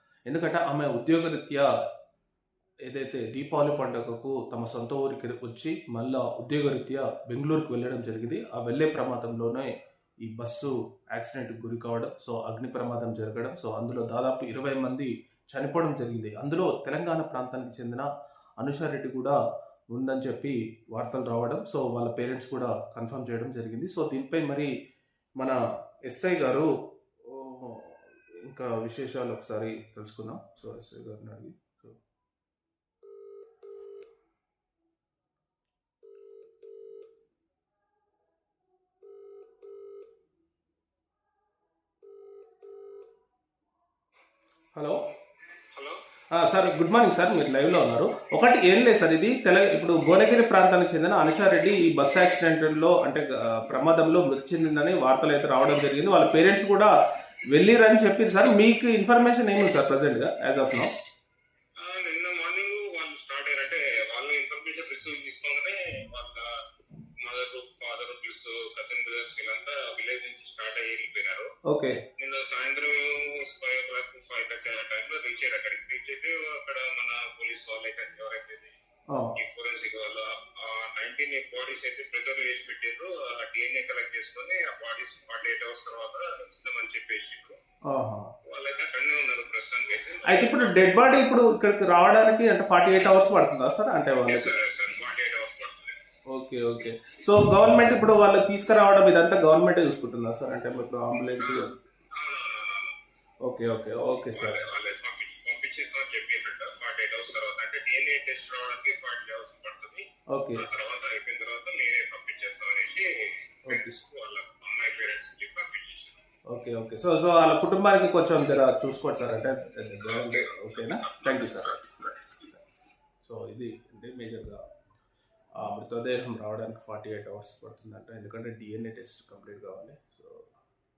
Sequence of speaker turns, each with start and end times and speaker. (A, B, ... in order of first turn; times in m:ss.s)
0:00.3-0:01.7 A
0:02.8-0:09.7 A
0:10.2-0:18.1 A
0:18.6-0:19.4 A
0:19.9-0:24.7 A
0:25.4-0:26.7 A
0:27.2-0:32.0 A
0:45.7-0:46.0 B
0:46.3-0:56.9 A
0:57.5-1:00.9 A
1:01.8-1:06.5 B
1:07.2-1:11.5 B
1:11.7-1:12.0 A
1:12.2-1:18.8 B
1:19.1-1:19.4 A
1:19.3-1:27.6 B
1:27.8-1:28.3 A
1:28.4-1:31.0 B
1:30.2-1:34.5 A
1:34.3-1:36.0 B
1:36.3-1:41.8 A
1:41.4-1:42.9 B
1:43.4-1:44.6 A
1:44.3-1:56.2 B
1:50.3-1:50.6 A
1:53.7-1:53.9 A
1:56.5-2:02.6 A
2:00.0-2:02.1 B
2:03.2-2:04.6 A
2:05.6-2:10.5 A